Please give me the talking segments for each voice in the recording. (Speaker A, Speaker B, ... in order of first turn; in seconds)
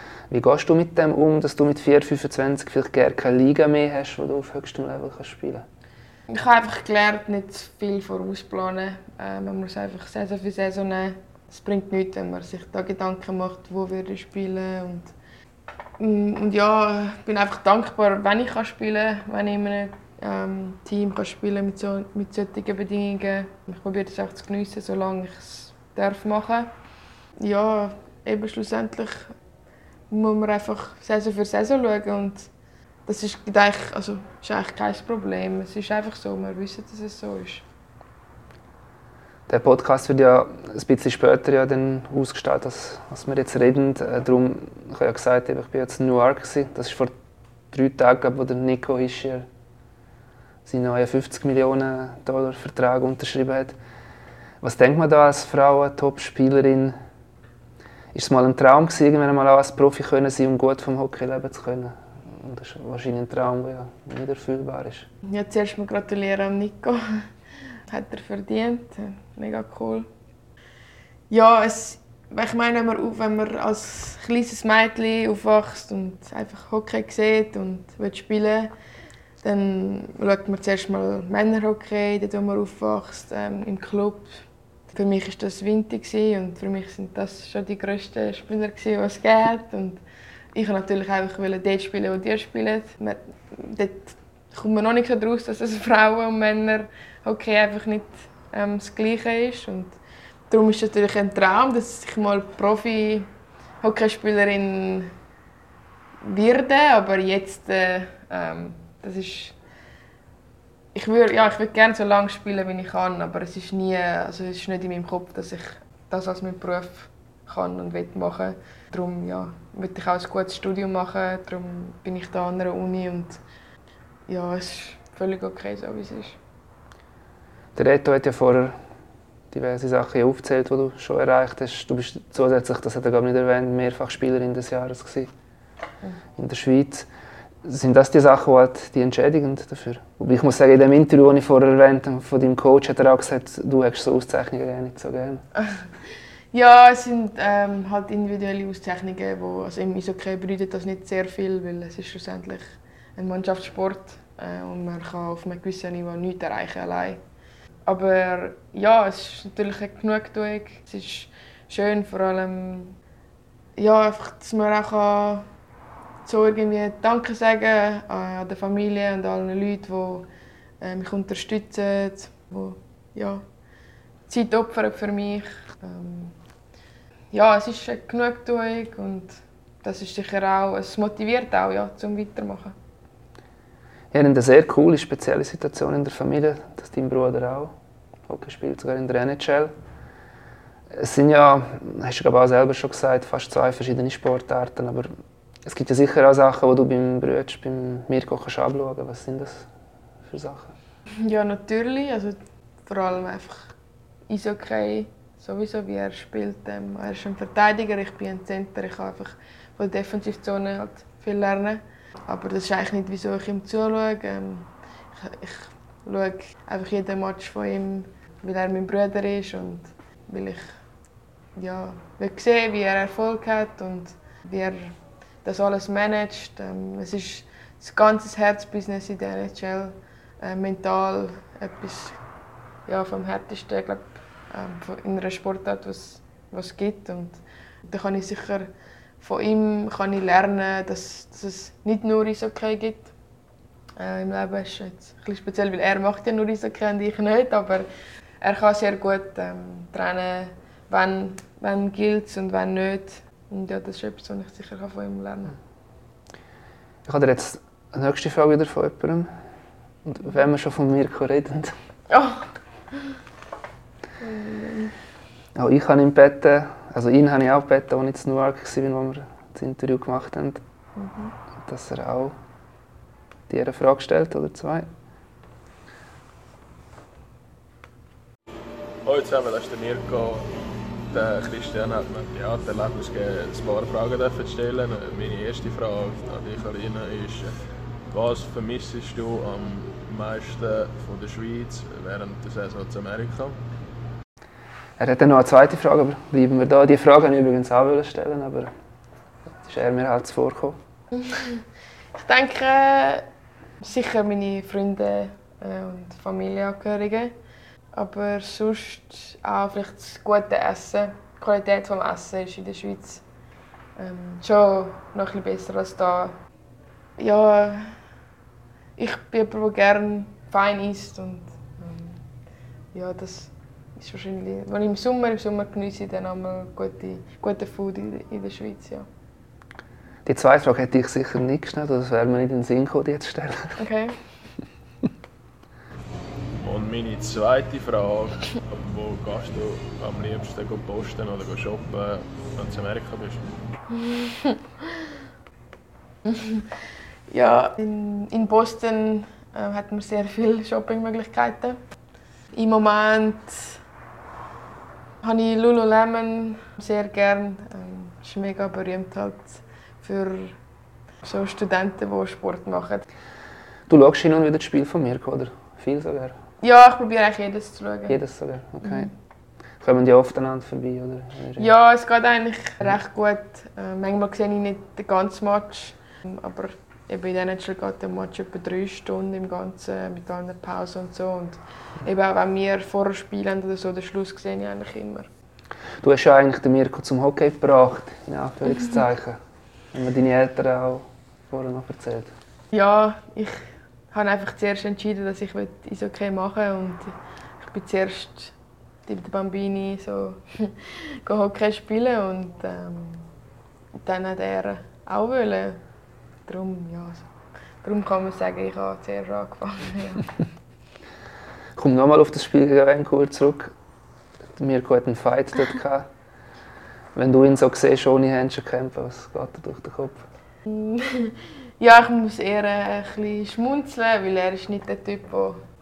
Speaker A: 0.3-5.7, 39.5-47.1, 47.7-49.5, 50.6-53.8, 54.6-56.9, 58.1-65.1, 127.8-128.8, 129.5-135.3, 136.4-137.1, 137.6-145.4, 184.1-187.7, 188.3-189.7, 190.9-195.1, 195.7-199.7, 200.3-200.7, 257.1-259.3, 260.0-261.7, 265.6-270.6, 271.6-272.4, 273.5-274.9, 295.0-298.7, 299.6-300.8, 330.3-333.8, 363.9-366.4, 368.1-369.1, 369.8-371.7, 386.0-389.4, 389.9-392.3, 411.8-413.7, 414.6-416.1, 417.1-420.2
Speaker B: 6.3-15.1, 16.0-26.7, 27.4-29.3, 30.1-32.5, 33.1-37.6, 65.2-67.3, 67.9-70.1, 71.3-78.7, 79.4-90.0, 90.5-100.0, 100.5-103.3, 103.8-105.1, 106.2-109.5, 110.9-123.4, 124.3-126.4, 146.5-157.2, 157.9-163.0, 163.8-165.5, 166.2-170.3, 170.8-173.4, 174.3-176.4, 177.3-182.8, 201.2-203.8, 204.3-220.8, 221.6-232.2, 232.9-238.7, 239.2-243.1, 244.0-247.9, 248.4-255.6, 262.1-262.5, 264.2-264.9, 271.0-271.3, 301.2-301.6, 302.1-303.2, 303.8-307.3, 307.9-313.2, 314.0-316.4, 317.2-318.0, 319.0-322.2, 322.9-329.1, 333.8-334.2, 343.9-344.6, 346.3-346.7, 347.3-351.8, 352.5-353.8, 355.2-360.6, 361.2-363.1, 366.6-368.2, 368.8-369.1, 371.6-385.3, 392.7-398.5, 399.1-403.3, 404.0-405.8, 406.5-407.3, 407.8-410.3, 420.6-425.6
Speaker C: 279.1-280.5, 281.1-287.5, 288.1-293.6, 336.6-343.6